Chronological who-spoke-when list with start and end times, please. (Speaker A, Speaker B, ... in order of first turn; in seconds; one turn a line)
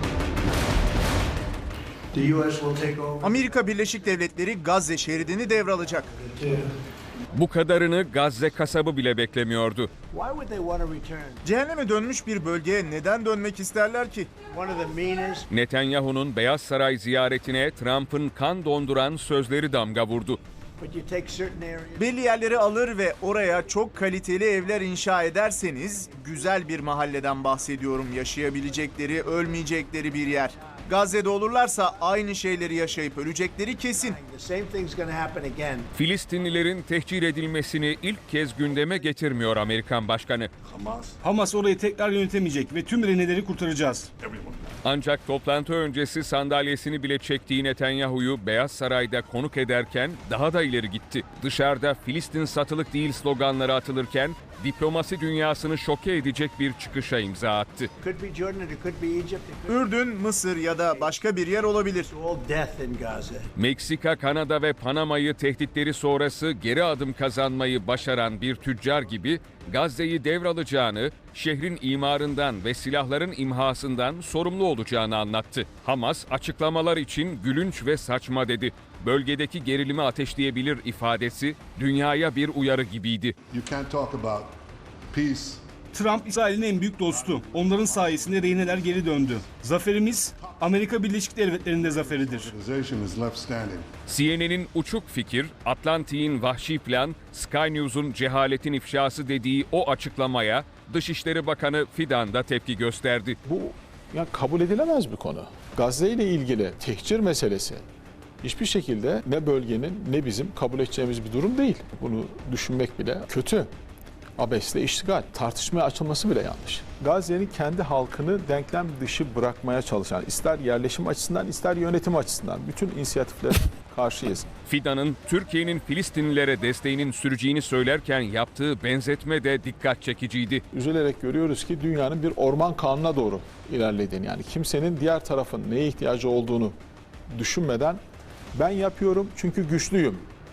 Speaker A: 2.1-3.6
Speaker B: 3.2-6.1
Speaker A: 6.1-6.7
Speaker C: 7.3-9.9
Speaker A: 10.1-11.4
Speaker B: 11.4-14.4
Speaker A: 14.4-15.5
Speaker C: 15.5-20.4
Speaker A: 20.8-22.1
Speaker B: 22.0-34.2
Speaker A: 34.0-35.9
Speaker C: 35.9-40.5
Speaker D: 40.7-41.1
Speaker E: 41.2-44.1
Speaker D: 44.3-44.5
Speaker C: 44.8-57.9
Speaker A: 58.0-59.9
Speaker B: 59.7-62.1
Speaker A: 60.7-61.2
Speaker A: 62.0-63.5
Speaker C: 63.5-83.3
Speaker D: 83.5-84.5
Speaker D: 85.1-85.7
Speaker E: 85.9-92.5
Speaker D: 87.3-89.1
Speaker D: 91.8-93.9
Speaker C: 94.1-103.3
Speaker F: 103.4-107.8
Speaker F: 108.4-113.7
Speaker F: 114.4-124.5
Speaker C: 124.7-130.6
Speaker F: 130.7-136.7
Speaker F: 137.3-138.0
Speaker F: 138.5-140.2